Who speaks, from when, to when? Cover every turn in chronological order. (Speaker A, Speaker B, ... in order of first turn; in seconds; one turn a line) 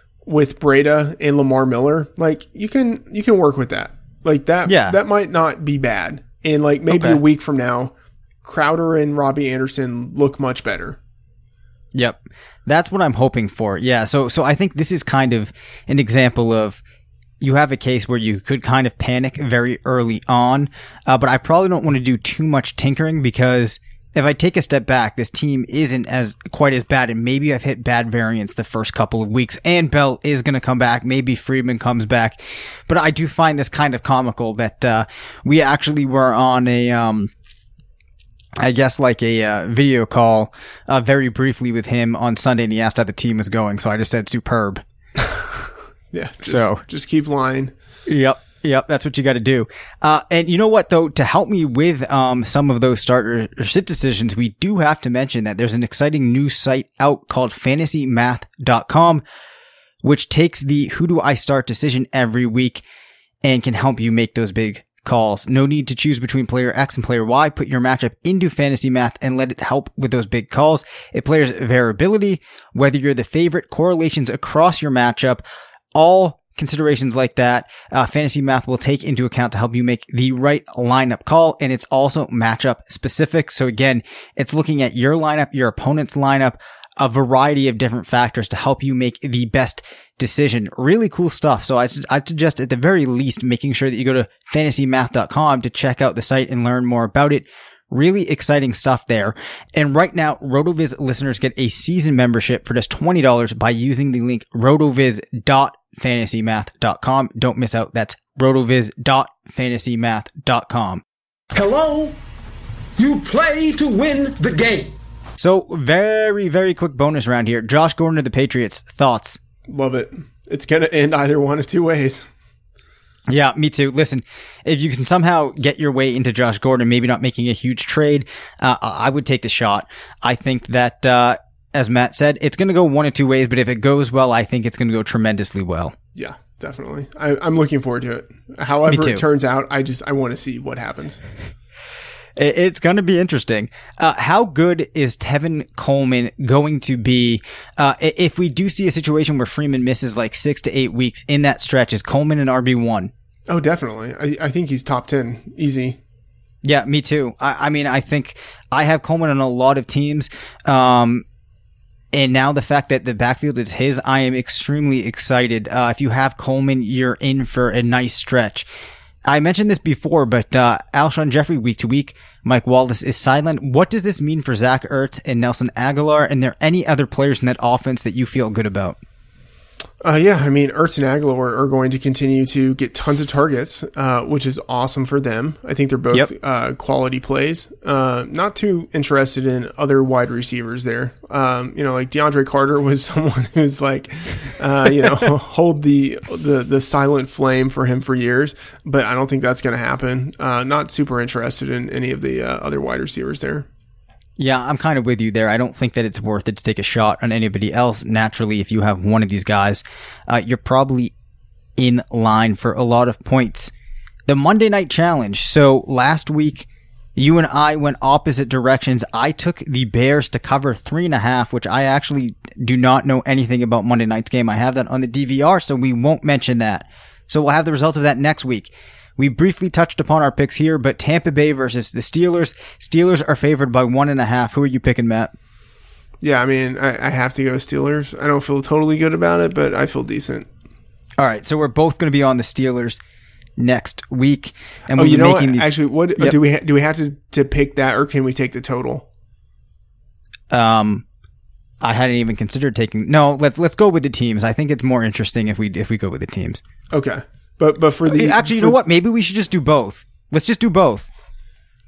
Speaker A: 0.2-7.9
Speaker B: 4.7-5.0
Speaker B: 6.9-7.2
Speaker A: 8.4-11.0
Speaker B: 11.9-16.8
Speaker B: 17.4-37.3
Speaker B: 38.6-44.8
Speaker A: 46.1-47.7
Speaker B: 46.4-46.8
Speaker B: 48.1-59.2
Speaker B: 60.0-62.8
Speaker B: 63.4-75.4
Speaker B: 75.9-111.0
Speaker C: 111.5-112.1
Speaker C: 113.0-114.9
Speaker B: 115.4-119.4
Speaker A: 119.7-122.3
Speaker B: 123.3-135.9
Speaker A: 136.1-141.2
Speaker B: 138.9-139.2
Speaker B: 142.4-153.1
Speaker A: 153.5-156.0
Speaker B: 156.6-161.2
Speaker B: 162.1-168.7
Speaker B: 169.3-179.0
Speaker A: 180.0-203.7
Speaker B: 204.4-211.1
Speaker B: 211.8-213.7
Speaker B: 214.3-235.3
Speaker A: 236.2-240.5
Speaker B: 241.2-243.0
Speaker B: 243.6-246.3
Speaker A: 244.9-249.1
Speaker B: 250.5-251.0
Speaker B: 251.8-256.6
Speaker A: 256.9-258.8
Speaker B: 258.1-261.1